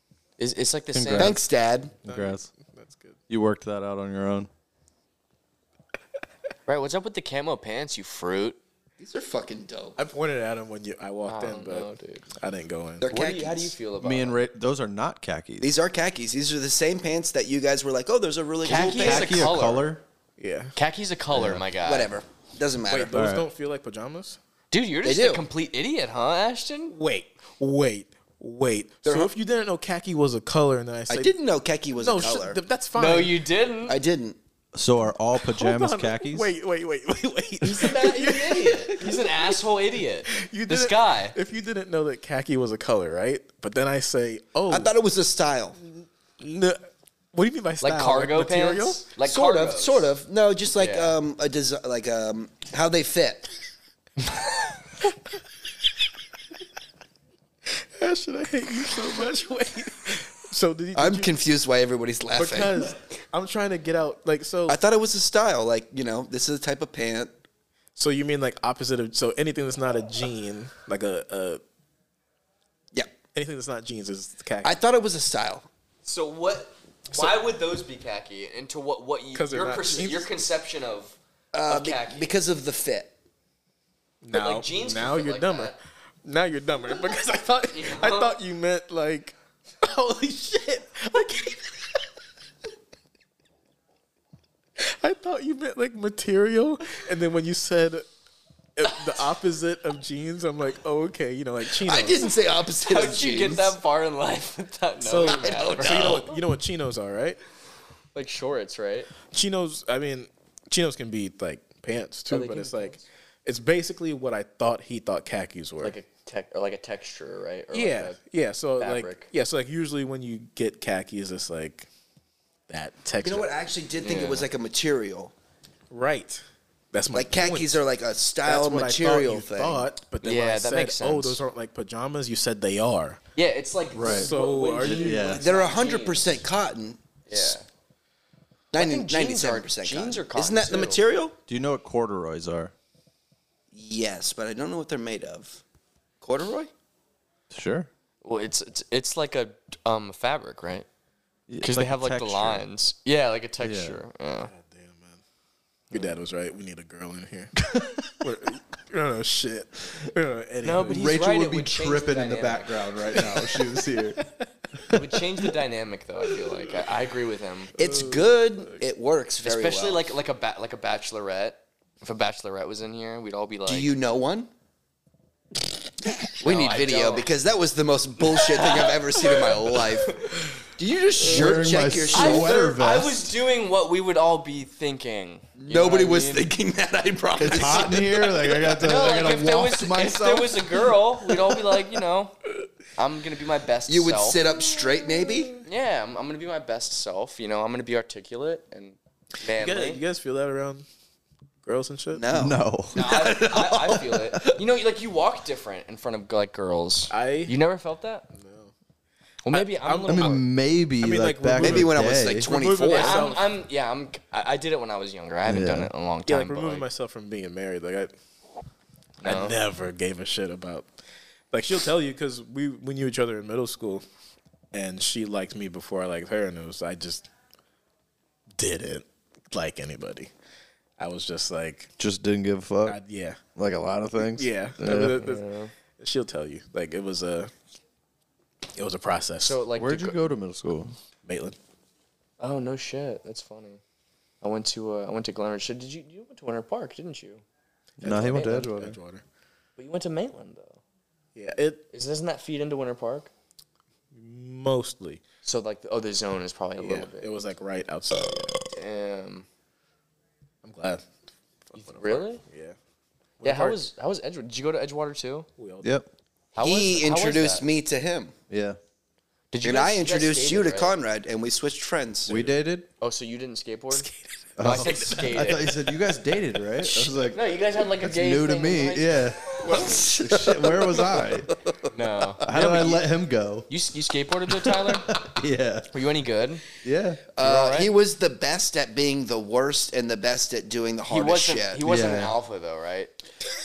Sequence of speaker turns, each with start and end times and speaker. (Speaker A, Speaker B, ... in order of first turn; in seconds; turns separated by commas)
Speaker A: 0.4-1.4, Speaker B: 0.9-1.4, Speaker C: 1.2-1.9, Speaker B: 2.0-2.5, Speaker D: 2.1-3.2, Speaker B: 3.3-4.5, Speaker A: 6.7-8.6, Speaker C: 9.0-10.0, Speaker D: 10.0-13.1, Speaker A: 11.3-12.3, Speaker C: 13.0-13.7, Speaker A: 13.1-14.4, Speaker B: 14.0-15.7, Speaker C: 15.6-19.5, Speaker A: 18.6-19.9, Speaker B: 18.7-20.0, Speaker D: 20.4-20.7, Speaker A: 20.8-22.1, Speaker B: 21.3-21.6, Speaker C: 21.8-23.1, Speaker D: 22.9-24.4, Speaker B: 23.1-23.5, Speaker A: 24.7-26.9, Speaker C: 25.0-25.4, Speaker D: 26.9-31.4, Speaker C: 29.1-29.3, Speaker C: 31.1-32.6, Speaker D: 31.9-33.4, Speaker A: 33.0-34.0, Speaker C: 33.9-34.4, Speaker B: 34.7-36.5, Speaker D: 35.4-39.6, Speaker A: 37.6-41.4, Speaker D: 40.3-44.9, Speaker C: 44.7-45.8, Speaker D: 45.8-49.0, Speaker A: 47.8-50.1, Speaker C: 49.2-53.5, Speaker A: 50.8-51.2, Speaker D: 57.8-61.3, Speaker C: 61.0-62.9, Speaker D: 62.3-64.8, Speaker C: 64.7-67.3, Speaker D: 68.0-71.6, Speaker D: 73.3-74.7, Speaker C: 74.6-75.7, Speaker A: 76.0-82.3, Speaker D: 79.3-80.3, Speaker C: 81.5-83.1, Speaker D: 84.2-92.0, Speaker A: 84.3-85.8, Speaker A: 87.7-88.3, Speaker D: 94.8-98.1, Speaker D: 98.8-102.3, Speaker C: 101.8-103.8, Speaker A: 102.8-106.3, Speaker D: 105.0-107.4, Speaker C: 105.2-106.3, Speaker A: 108.1-109.1, Speaker D: 109.3-116.0, Speaker A: 112.3-113.0, Speaker A: 115.8-118.2, Speaker D: 117.7-121.9, Speaker A: 118.8-119.3, Speaker D: 122.7-123.5, Speaker C: 123.2-125.3, Speaker A: 124.0-124.5, Speaker D: 125.9-127.8, Speaker C: 127.1-129.9, Speaker D: 128.4-133.2, Speaker A: 130.2-131.4, Speaker A: 133.4-136.4, Speaker B: 133.9-134.3, Speaker D: 134.1-135.4, Speaker B: 134.8-135.4, Speaker C: 135.2-137.6, Speaker A: 137.3-137.6, Speaker C: 138.7-141.4, Speaker A: 138.7-141.0, Speaker B: 141.5-142.7, Speaker C: 143.7-145.6, Speaker C: 146.2-146.7, Speaker B: 147.5-147.9, Speaker A: 148.2-150.9, Speaker B: 151.5-152.6, Speaker A: 151.6-154.5, Speaker B: 153.6-154.0, Speaker D: 154.5-155.2, Speaker D: 155.9-161.1, Speaker B: 157.7-158.1, Speaker A: 160.6-163.0, Speaker B: 160.9-164.2, Speaker D: 163.2-165.0, Speaker A: 164.9-167.7, Speaker D: 167.8-168.8, Speaker C: 167.8-170.1, Speaker A: 169.4-173.9, Speaker C: 173.7-174.5, Speaker C: 176.2-182.7, Speaker A: 176.4-177.3, Speaker A: 178.4-180.4, Speaker B: 181.2-183.3, Speaker A: 182.1-186.5, Speaker C: 185.6-188.6, Speaker B: 187.4-190.7, Speaker A: 188.7-192.4, Speaker A: 192.9-194.4, Speaker C: 193.9-195.6, Speaker A: 195.6-200.0, Speaker D: 199.5-200.8, Speaker D: 201.6-202.2, Speaker C: 202.1-204.4, Speaker B: 202.3-204.2, Speaker A: 202.9-208.3, Speaker D: 207.1-207.6, Speaker D: 208.3-208.7, Speaker A: 209.4-210.4, Speaker D: 209.5-210.4, Speaker B: 210.1-212.5, Speaker D: 211.0-213.5, Speaker C: 211.6-213.3, Speaker A: 212.9-216.9, Speaker B: 215.4-215.9, Speaker D: 216.3-218.1, Speaker A: 219.2-219.6, Speaker D: 219.2-220.9, Speaker D: 221.5-224.0, Speaker D: 224.7-227.3, Speaker D: 228.6-230.3, Speaker D: 231.0-231.9, Speaker B: 232.0-233.0, Speaker D: 232.9-233.4, Speaker B: 233.6-235.3, Speaker D: 234.2-235.5, Speaker A: 235.0-235.7, Speaker D: 236.0-237.5, Speaker D: 238.7-239.6, Speaker A: 239.4-240.2, Speaker B: 239.8-240.9, Speaker D: 241.2-241.6, Speaker A: 242.4-243.8, Speaker A: 244.4-247.4, Speaker D: 248.0-249.2, Speaker B: 248.0-249.0, Speaker A: 248.3-248.7, Speaker A: 249.8-250.8, Speaker D: 251.3-251.9, Speaker A: 251.9-253.3, Speaker D: 254.1-255.2, Speaker A: 255.4-257.3, Speaker D: 256.8-258.6, Speaker A: 258.7-259.4, Speaker D: 260.6-261.1, Speaker D: 261.7-262.8, Speaker A: 261.8-262.4, Speaker D: 263.4-263.8, Speaker A: 263.4-265.5, Speaker D: 265.6-265.9, Speaker B: 265.8-266.1, Speaker A: 266.5-267.6, Speaker C: 266.6-268.4, Speaker B: 268.5-268.8, Speaker A: 269.5-270.9, Speaker C: 269.6-272.5, Speaker B: 272.3-272.9, Speaker A: 273.0-274.1, Speaker D: 273.9-275.4, Speaker B: 274.6-281.5, Speaker A: 274.6-275.8, Speaker A: 276.8-279.9, Speaker C: 279.6-281.9, Speaker A: 281.9-283.1, Speaker B: 282.4-283.7, Speaker A: 283.7-285.2, Speaker B: 284.6-285.9, Speaker A: 285.9-286.6, Speaker B: 286.8-287.2, Speaker C: 287.3-291.9, Speaker A: 287.4-287.9, Speaker A: 291.1-293.1, Speaker B: 291.8-292.4